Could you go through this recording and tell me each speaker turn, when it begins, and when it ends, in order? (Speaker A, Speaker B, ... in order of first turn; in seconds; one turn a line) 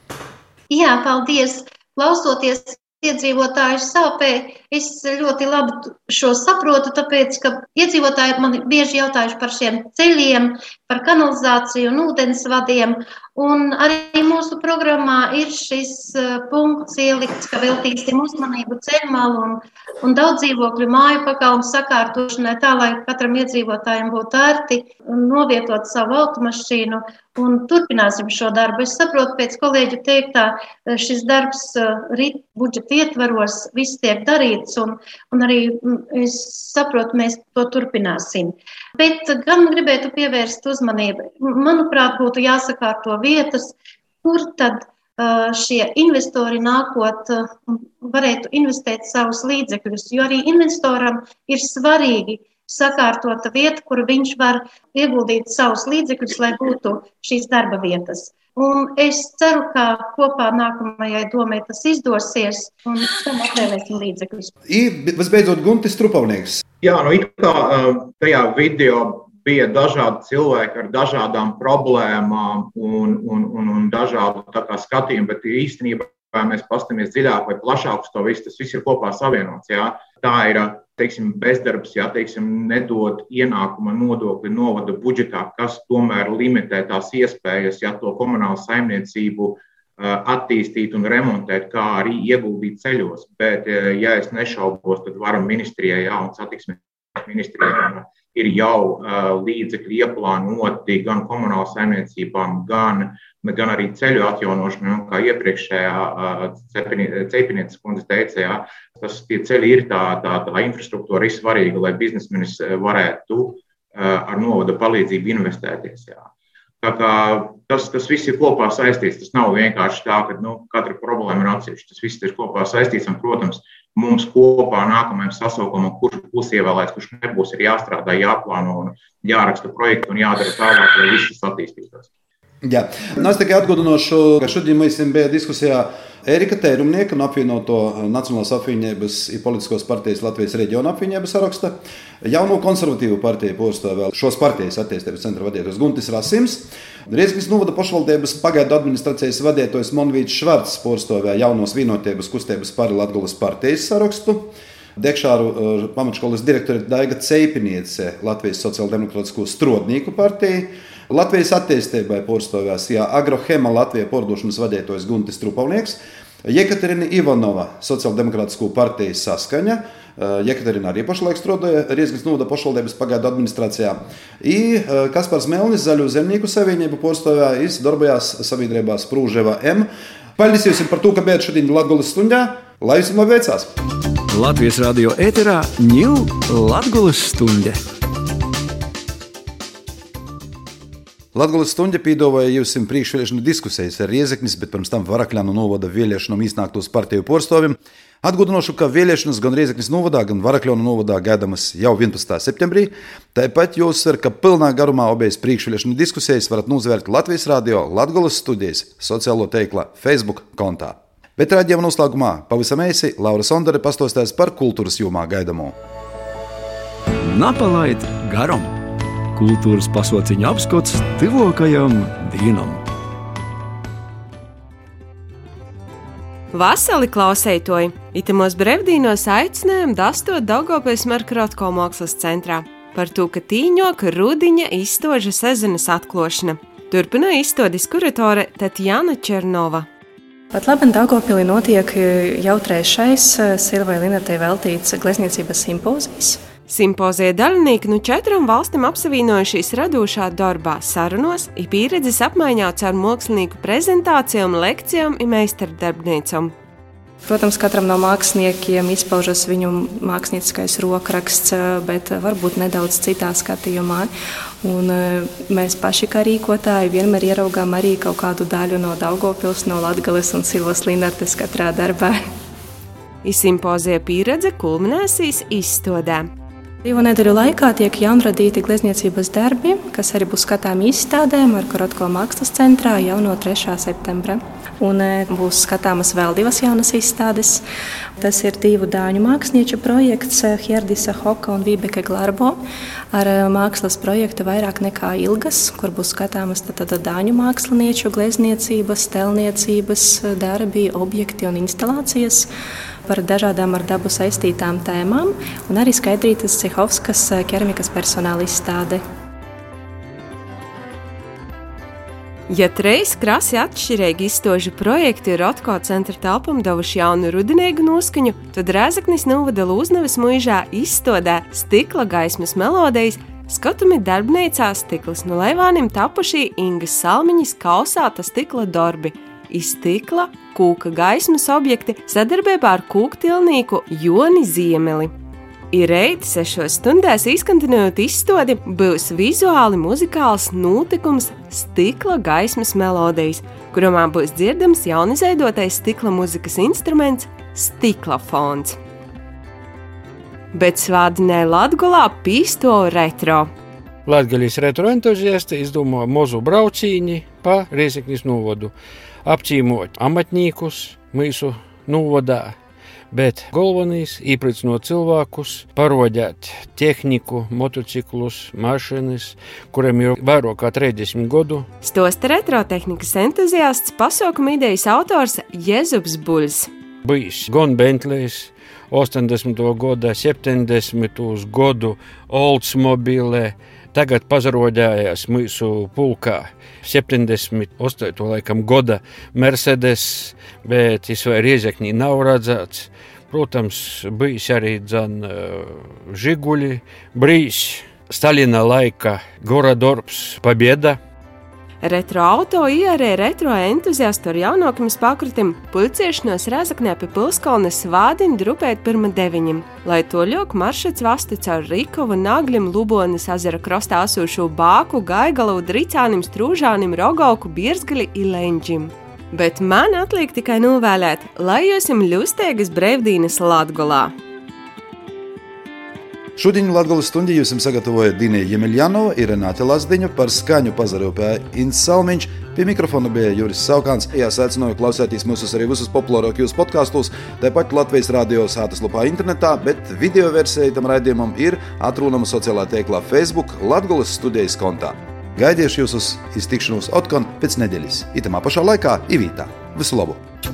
Speaker A: 0.7-64.5
Speaker B: 64.7-66.6
Speaker C: 66.8-116.3
Speaker C: 116.8-132.1
Speaker B: 132.6-183.7
Speaker D: 184.3-187.8
Speaker B: 191.3-215.8
Speaker D: 217.2-218.8
Speaker D: 219.3-222.8
Speaker E: 226.5-239.9
Speaker F: 240.5-246.4
Speaker E: 246.7-256.5
Speaker F: 257.2-264.1
Speaker F: 264.6-272.2
Speaker E: 273.2-276.3
Speaker F: 276.8-287.6
Speaker F: 288.2-292.6
Speaker F: 293.1-302.5
Speaker F: 303.1-309.0
Speaker E: 312.5-335.1
Speaker E: 335.7-348.8
Speaker E: 350.5-353.5
Speaker G: 354.1-358.7
Speaker G: 359.2-362.6
Speaker G: 363.1-371.7
Speaker E: 371.8-376.7
Speaker G: 377.0-401.0
Speaker E: 401.8-424.1
Speaker B: 426.4-450.2